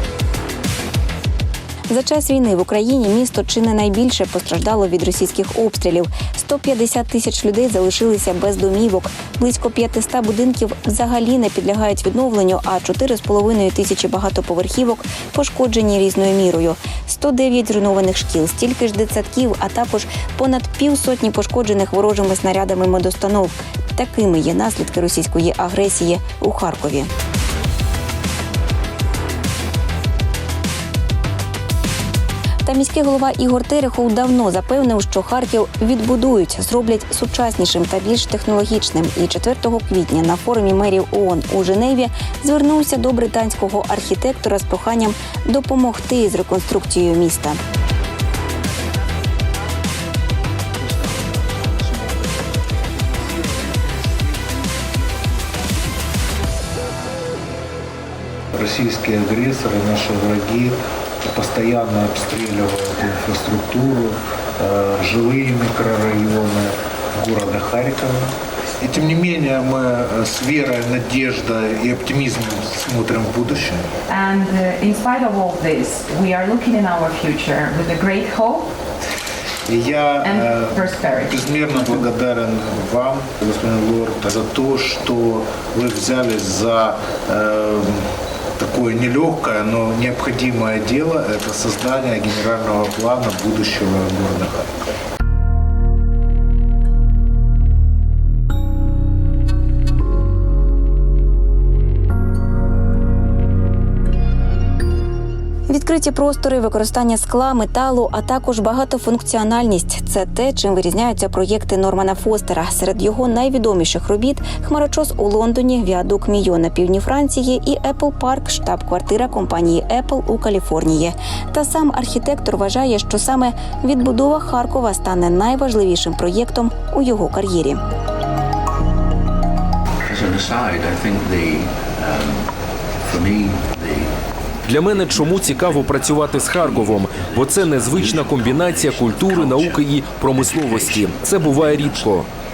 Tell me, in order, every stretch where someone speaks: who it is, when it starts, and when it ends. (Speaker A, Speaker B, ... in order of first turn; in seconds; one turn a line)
Speaker A: 1.9-27.1
Speaker A: 32.6-47.6
Speaker B: 58.5-73.9
Speaker C: 74.1-78.7
Speaker B: 79.7-94.8
Speaker C: 80.2-81.5
Speaker A: 105.7-127.8
Speaker D: 130.1-132.5
Speaker D: 133.0-134.1
Speaker E: 134.7-142.3
Speaker D: 134.8-142.1